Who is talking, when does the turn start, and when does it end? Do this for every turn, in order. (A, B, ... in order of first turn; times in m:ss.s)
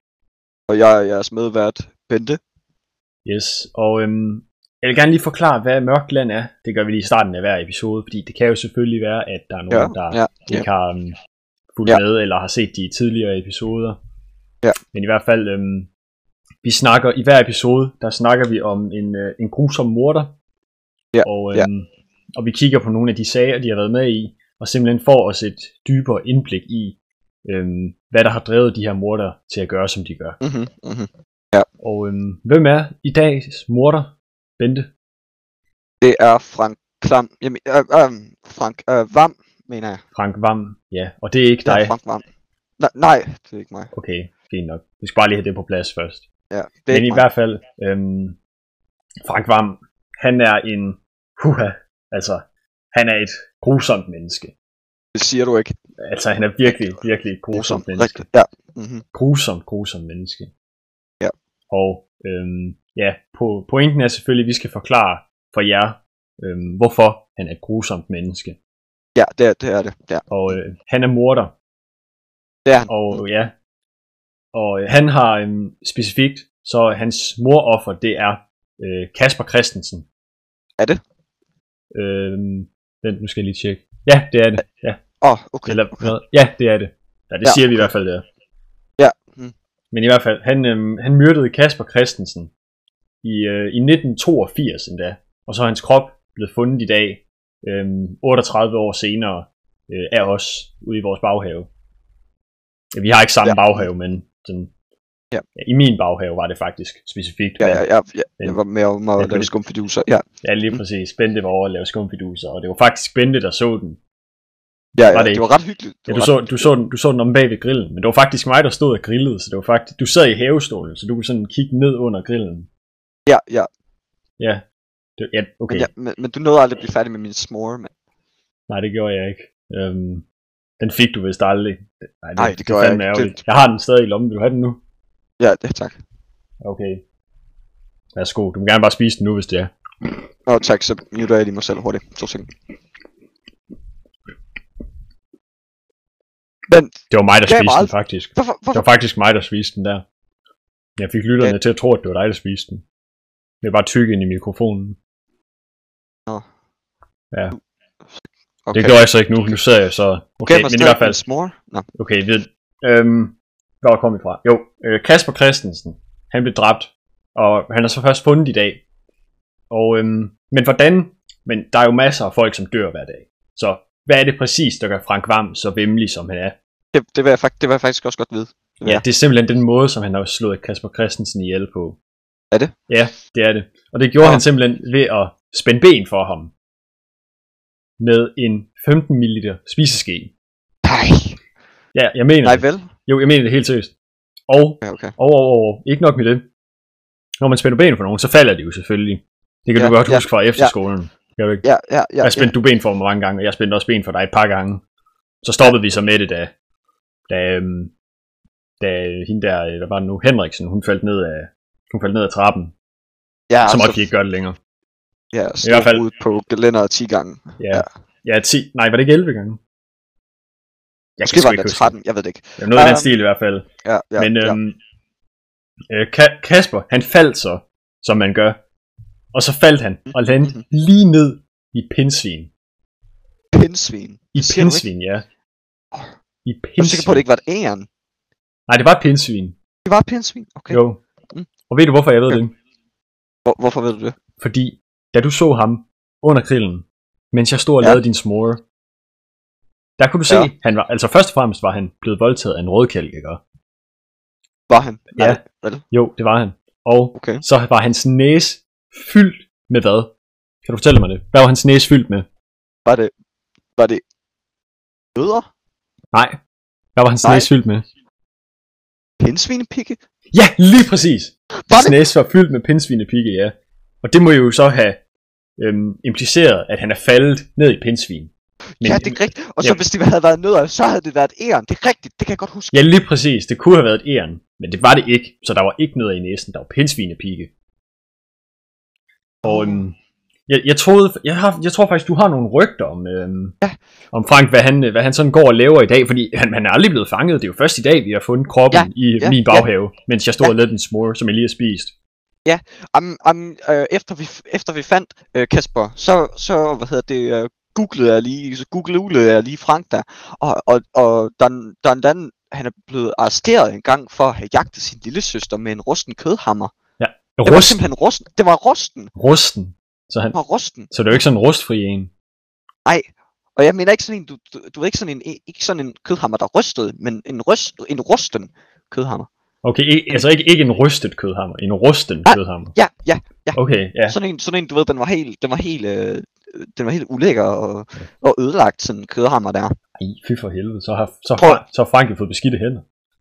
0:00.7-0:02.4 A
0:03.2-0:11.2 B
0:09.7-0:10.6 A
0:11.8-0:14.0 B
0:14.9-0:15.9 B
0:16.6-0:20.3 B
0:21.1-0:21.7 A
0:21.2-0:30.4 B
0:30.4-0:31.6 A
0:31.8-0:34.9 B
0:36.0-0:40.0 A
0:40.1-0:41.9 B
0:41.6-0:42.2 A
0:42.8-0:43.9 A
0:43.9-0:46.2 B
0:46.5-0:47.2 A
0:46.9-0:48.4 B
0:49.2-0:54.5 B
0:55.1-0:55.7 A
0:56.0-0:58.2 B
0:57.5-0:59.0 A
0:59.1-1:00.5 B
1:01.7-1:08.6 B
1:09.1-1:10.3 A
1:10.3-1:11.5 B
1:12.6-1:13.2 A
1:12.9-1:13.5 B
1:14.5-1:20.1 B
1:21.9-1:25.0 B
1:25.2-1:26.1 A
1:25.6-1:28.2 B
1:27.4-1:27.9 A
1:29.0-1:29.5 A
1:29.9-1:32.5 B
1:33.2-1:41.7 B
1:43.0-1:44.7 B
1:43.4-1:43.8 A
1:45.6-1:47.8 B
1:47.6-1:50.8 A
1:49.2-1:49.5 B
1:50.4-1:54.0 B
1:54.9-1:56.7 A
1:55.1-1:55.4 B
1:56.1-2:02.7 B
2:03.3-2:03.7 A
2:05.2-2:05.9 B
2:05.7-2:07.9 A
2:08.7-2:10.2 B
2:10.8-2:14.8 B
2:12.4-2:13.4 A
2:15.4-2:16.0 A
2:16.6-2:17.0 B
2:18.2-2:19.7 B
2:20.5-2:22.5 A
2:26.7-2:28.8 A
2:27.1-2:30.0 B
2:31.0-2:32.8 B
2:33.6-2:35.0 B
2:38.2-2:39.1 A
2:38.7-2:41.2 B
2:40.4-2:41.9 A
2:41.9-2:48.8 B
2:49.7-2:56.6 B
2:56.9-2:59.0 A
2:58.8-3:02.0 B
3:02.9-3:06.5 B
3:08.0-3:10.3 B
3:10.8-3:11.4 A
3:11.9-3:13.9 B
3:12.4-3:12.9 A
3:14.5-3:16.4 B
3:14.8-3:15.1 A
3:17.4-3:21.6 B
3:19.8-3:20.7 A
3:21.6-3:22.5 A
3:22.2-3:24.8 B
3:25.4-3:26.5 B
3:27.3-3:27.9 B
3:28.8-3:32.7 B
3:33.5-3:34.0 A
3:33.6-3:34.6 B
3:35.3-3:37.8 A
3:35.6-3:36.0 B
3:37.6-3:39.6 B
3:41.2-3:41.9 B
3:41.2-3:43.1 A
3:42.6-3:44.8 B
3:43.8-3:44.6 A
3:45.9-3:48.6 B
3:49.3-3:52.5 B
3:53.5-3:54.8 A
3:54.3-3:55.2 B
3:56.4-3:57.2 B
3:56.8-3:57.9 A
3:58.7-3:59.5 B
3:59.8-4:00.8 A
4:00.7-4:01.0 B
4:01.7-4:02.5 B
4:03.4-4:04.2 A
4:04.4-4:08.6 B
4:10.0-4:13.4 B
4:14.7-4:15.8 A
4:15.2-4:20.1 B
4:17.2-4:17.4 A
4:20.6-4:22.2 B
4:22.8-4:23.1 A
4:23.8-4:24.0 A
4:25.1-4:25.5 A
4:26.1-4:26.4 B
4:27.0-4:27.8 B
4:29.2-4:30.0 A
4:30.3-4:35.0 B
4:31.7-4:31.9 A
4:35.6-4:39.8 B
4:38.8-4:42.9 A
4:42.7-4:47.5 B
4:49.4-4:49.9 B
4:49.4-4:49.8 A
4:50.5-4:53.6 B
4:54.1-5:01.9 B
4:58.7-4:59.7 A
5:02.4-5:16.7 A
5:17.0-5:17.8 B
5:17.4-5:19.1 A
5:19.2-5:20.4 B
5:20.3-5:21.2 A
5:20.9-5:22.1 B
5:23.6-5:29.3 A
5:29.6-5:32.8 B
5:32.2-5:39.7 A
5:33.5-5:34.2 B
5:40.0-5:42.8 B
5:41.4-5:41.6 A